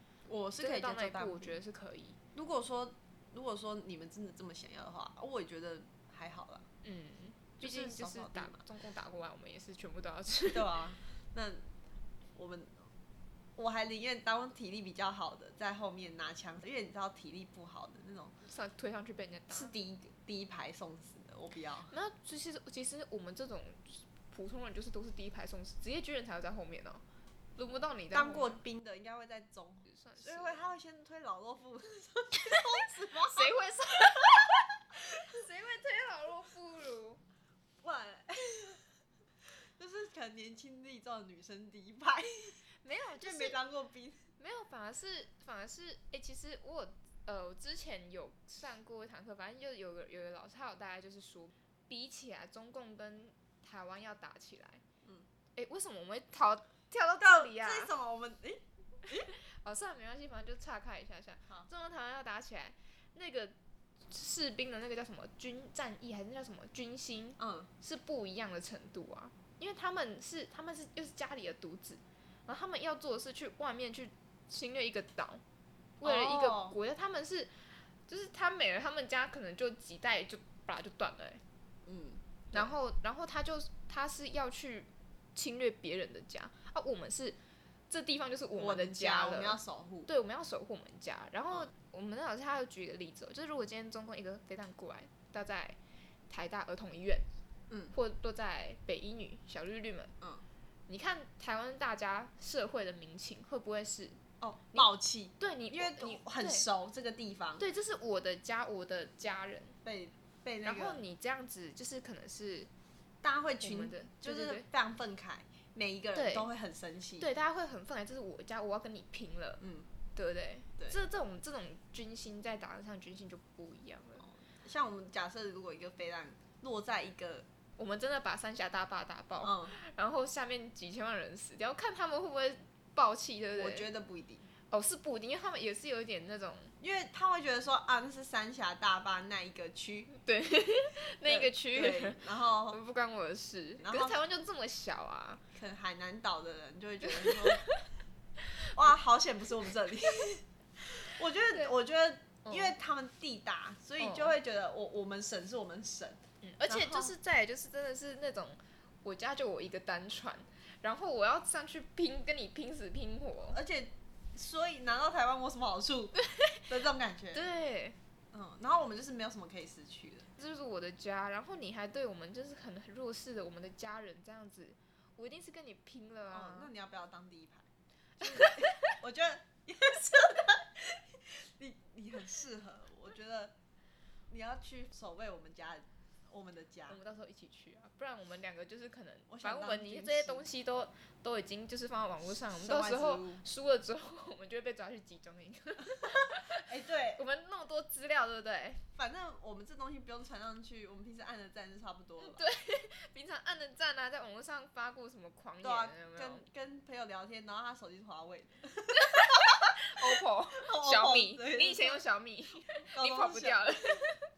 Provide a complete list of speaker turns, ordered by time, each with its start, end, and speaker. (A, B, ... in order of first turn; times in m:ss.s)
0:00.2-0:01.6 A
0:00.6-0:02.2 B
0:02.4-0:06.7 A
0:06.8-0:10.8 B
0:07.6-0:08.6 A
0:10.5-0:11.7 A
0:12.4-0:12.9 A
0:13.6-0:18.4 A
0:18.5-0:19.7 B
0:19.5-0:21.9 A
0:21.9-0:27.0 B
0:27.6-0:28.6 B
0:28.1-0:34.5 A
0:29.9-0:30.7 B
0:33.2-0:37.2 B
0:37.8-0:38.8 A
0:39.4-0:42.6 A
0:42.8-0:43.6 B
0:43.2-0:44.2 A
0:44.4-0:54.8 B
0:55.6-0:57.9 B
0:57.2-0:59.3 A
0:59.2-1:03.5 B
1:04.1-1:15.4 B
1:07.4-1:07.7 A
1:16.0-1:21.4 B
1:16.0-1:16.8 A
1:21.8-1:22.7 A
1:22.5-1:27.4 B
1:27.9-1:35.8 B
1:28.5-1:30.1 A
1:36.3-1:37.2 B
1:37.9-1:40.1 B
1:40.9-1:44.2 B
1:44.4-1:47.6 A
1:45.4-1:46.7 B
1:47.6-1:49.8 B
1:49.8-1:51.0 A
1:50.6-1:52.7 B
1:53.2-1:57.3 A
1:53.6-1:54.7 B
1:56.2-1:56.5 B
1:57.2-1:59.6 B
1:59.6-1:59.9 A
2:00.2-2:04.2 B
2:04.2-2:07.5 A
2:07.8-2:13.9 B
2:09.4-2:09.7 A
2:13.6-2:14.5 A
2:14.7-2:16.8 B
2:16.8-2:20.1 A
2:20.1-2:25.4 B
2:21.2-2:22.8 A
2:23.8-2:24.2 A
2:25.5-2:27.7 A
2:27.1-2:27.8 B
2:28.7-2:37.1 A
2:32.4-2:32.7 B
2:34.0-2:34.4 B
2:36.4-2:43.6 B
2:43.5-2:46.2 A
2:46.2-2:46.7 B
2:46.7-2:47.4 A
2:47.3-2:48.0 B
2:48.3-2:50.3 A
2:50.4-2:56.7 B
2:56.3-2:57.7 A
2:58.2-2:59.0 B
2:58.2-3:03.5 A
3:04.3-3:07.0 A
3:06.9-3:18.8 B
3:09.3-3:10.5 A
3:12.3-3:13.4 A
3:16.0-3:17.2 A
3:19.0-3:22.4 A
3:22.2-3:26.4 B
3:25.6-3:32.0 A
3:28.9-3:34.3 B
3:32.7-3:34.1 A